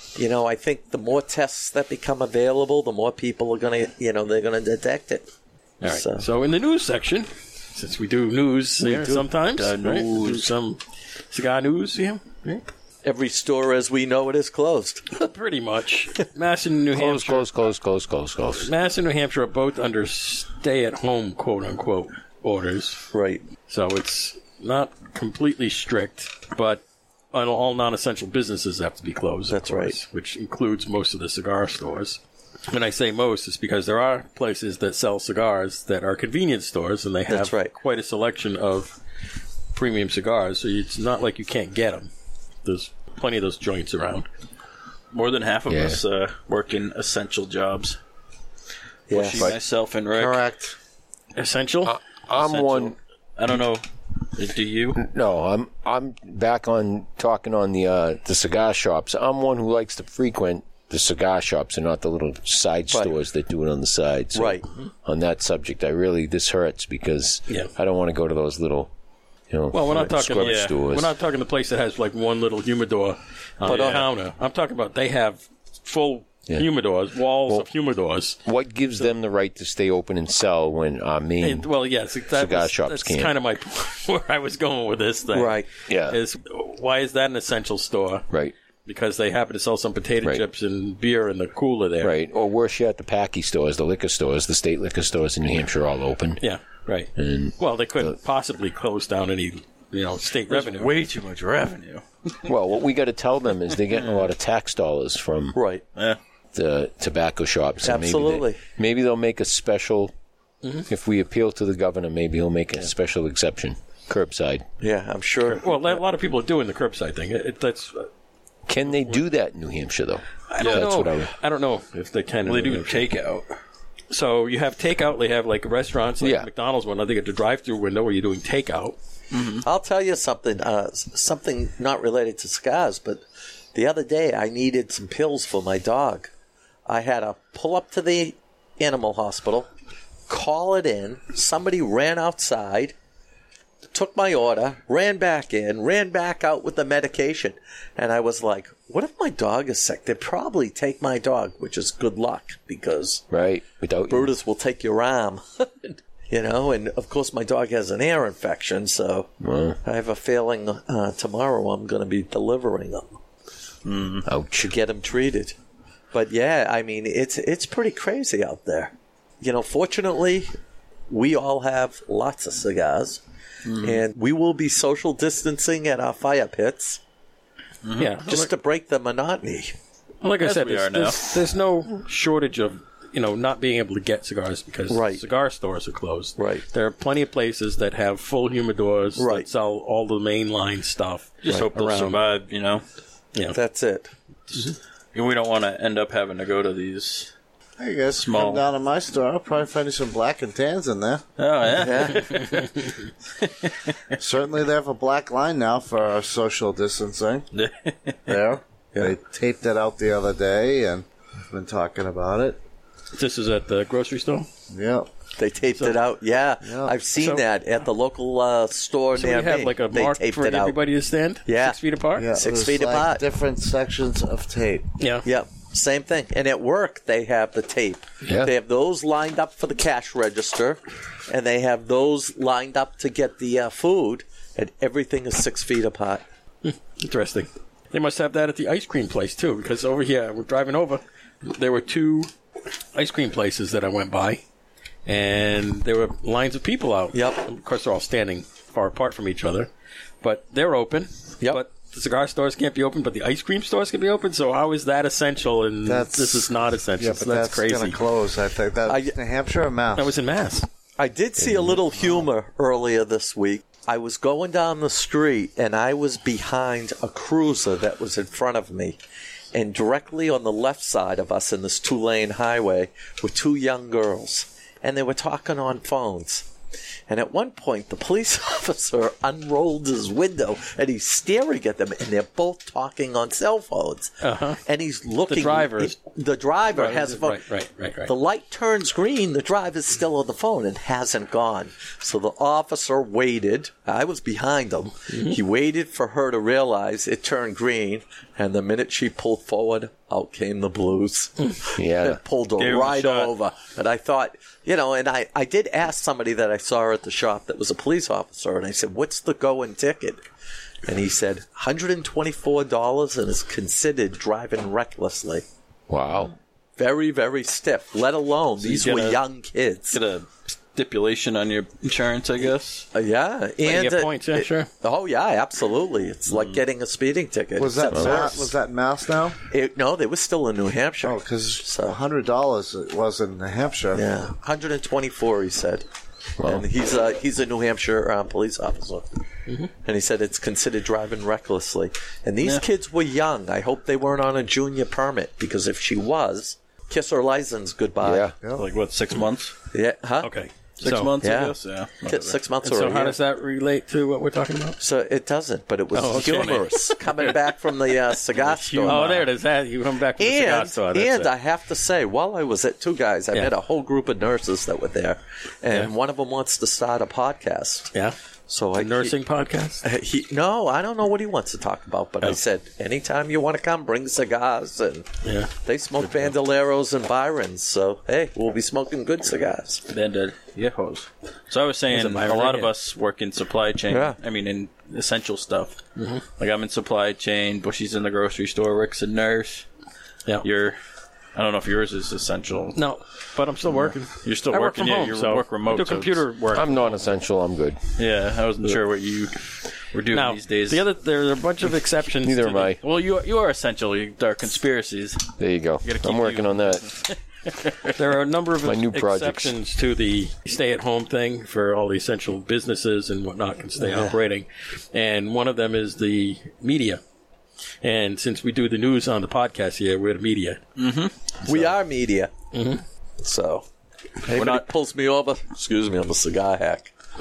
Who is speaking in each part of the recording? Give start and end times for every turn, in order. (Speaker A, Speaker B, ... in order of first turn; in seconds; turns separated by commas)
Speaker A: 0.1-5.3, Speaker B: 5.8-12.6, Speaker A: 5.8-6.2, Speaker A: 8.9-9.1, Speaker C: 9.0-10.5, Speaker A: 13.0-15.2, Speaker B: 15.1-17.5, Speaker D: 16.9-18.7, Speaker B: 18.6-23.0, Speaker A: 23.1-23.4, Speaker B: 23.7-38.9, Speaker A: 29.5-29.9, Speaker A: 37.3-37.7, Speaker B: 39.7-42.1, Speaker B: 42.6-44.3, Speaker C: 45.1-48.0, Speaker D: 45.7-46.0, Speaker A: 49.1-49.6, Speaker C: 49.1-50.5, Speaker E: 50.1-50.7, Speaker B: 51.3-52.0, Speaker D: 51.8-53.0, Speaker C: 52.4-55.0, Speaker D: 54.9-68.9, Speaker A: 64.3-64.7, Speaker D: 69.5-71.1, Speaker B: 69.7-78.4, Speaker C: 70.4-70.8, Speaker C: 73.6-74.0, Speaker A: 73.6-74.1, Speaker D: 78.4-81.7, Speaker B: 81.4-88.2, Speaker D: 82.3-83.3, Speaker A: 85.3-85.7, Speaker D: 85.9-86.2, Speaker B: 88.8-92.1, Speaker D: 92.0-96.4, Speaker B: 96.4-100.9, Speaker D: 97.2-98.2, Speaker C: 100.5-102.5, Speaker D: 102.5-105.6, Speaker A: 105.5-105.8, Speaker D: 106.5-110.1, Speaker A: 107.8-108.6, Speaker D: 110.9-114.7, Speaker A: 114.8-116.0, Speaker B: 115.5-118.1, Speaker D: 118.7-121.3, Speaker B: 120.5-123.0, Speaker C: 122.5-123.5, Speaker B: 124.1-129.0, Speaker D: 126.2-126.5, Speaker C: 129.3-129.7, Speaker A: 129.6-136.3, Speaker A: 136.9-139.7, Speaker A: 140.3-142.9, Speaker A: 143.9-153.2, Speaker D: 153.3-154.3, Speaker A: 154.1-159.3, Speaker D: 159.4-159.8, Speaker A: 159.8-163.2, Speaker C: 163.8-164.2, Speaker D: 164.2-164.7, Speaker A: 164.6-165.6, Speaker A: 166.1-170.5, Speaker A: 171.1-173.2, Speaker C: 173.6-174.0, Speaker A: 173.8-177.0, Speaker C: 177.8-178.1, Speaker B: 178.0-178.5, Speaker A: 178.3-179.7, Speaker B: 180.2-192.2, Speaker C: 180.4-181.3, Speaker A: 184.9-185.2, Speaker A: 186.4-186.6, Speaker A: 189.2-189.5, Speaker C: 191.5-192.8, Speaker A: 193.5-194.1, Speaker C: 194.5-197.3, Speaker E: 197.8-201.2, Speaker C: 198.1-198.7, Speaker C: 201.4-202.7, Speaker A: 201.7-202.6, Speaker B: 202.3-202.6, Speaker C: 203.4-203.9, Speaker E: 204.2-207.5, Speaker C: 207.5-208.2, Speaker E: 208.2-212.6, Speaker B: 213.1-214.5, Speaker E: 214.7-215.1, Speaker A: 215.4-220.8, Speaker E: 216.6-216.9, Speaker B: 217.2-217.4, Speaker B: 219.1-222.3, Speaker A: 221.4-221.8, Speaker E: 222.2-224.9, Speaker A: 222.3-223.2, Speaker B: 225.0-225.2, Speaker A: 225.2-236.2, Speaker D: 228.2-228.5, Speaker B: 236.6-242.3, Speaker B: 242.9-244.4, Speaker B: 245.1-249.7, Speaker A: 247.1-247.4, Speaker B: 250.2-258.0, Speaker E: 255.8-260.1, Speaker A: 258.9-259.1, Speaker B: 259.9-260.7, Speaker A: 261.0-269.0, Speaker D: 261.4-261.8, Speaker A: 269.5-276.5, Speaker A: 277.1-287.4, Speaker B: 284.2-284.6, Speaker B: 285.3-285.9, Speaker B: 286.7-288.1, Speaker A: 288.0-310.2, Speaker B: 295.1-295.4, Speaker D: 301.8-302.2, Speaker C: 302.6-303.3, Speaker A: 310.8-315.4, Speaker D: 315.9-316.3, Speaker A: 316.8-320.0, Speaker C: 318.6-319.2, Speaker C: 319.9-322.9, Speaker A: 322.9-328.5, Speaker B: 323.6-324.7, Speaker C: 326.3-326.6, Speaker E: 327.6-329.4, Speaker D: 327.9-328.2, Speaker A: 329.5-332.0, Speaker E: 331.0-334.1, Speaker A: 333.9-335.9, Speaker D: 336.4-336.6, Speaker A: 336.4-339.1, Speaker A: 339.8-348.3, Speaker D: 348.0-348.3, Speaker E: 348.4-348.6, Speaker C: 348.5-349.5, Speaker A: 349.7-350.3, Speaker B: 350.2-351.1, Speaker C: 350.8-352.4, Speaker A: 351.2-353.2, Speaker B: 352.6-354.8, Speaker A: 354.8-359.3, Speaker B: 355.9-356.9, Speaker C: 356.2-356.6, Speaker B: 358.5-361.3, Speaker A: 360.2-367.9, Speaker A: 368.5-369.1, Speaker B: 368.8-369.8, Speaker A: 369.8-375.1, Speaker B: 375.2-375.5, Speaker A: 375.6-379.8, Speaker C: 379.9-385.8, Speaker B: 381.9-382.7, Speaker A: 383.9-384.1, Speaker B: 385.9-386.2, Speaker C: 386.4-389.6, Speaker C: 390.4-390.8, Speaker C: 391.3-392.8, Speaker B: 392.7-397.0, Speaker C: 393.7-396.2, Speaker D: 396.5-397.8, Speaker C: 398.0-400.8, Speaker B: 400.1-402.7, Speaker D: 402.2-402.8, Speaker C: 402.8-407.0, Speaker D: 405.4-406.9, Speaker B: 407.9-417.0, Speaker D: 408.6-409.6, Speaker B: 417.8-420.6, Speaker C: 420.8-421.1, Speaker A: 421.4-422.3, Speaker B: 422.5-422.8, Speaker A: 423.2-423.6, Speaker A: 424.2-426.9, Speaker C: 424.3-424.7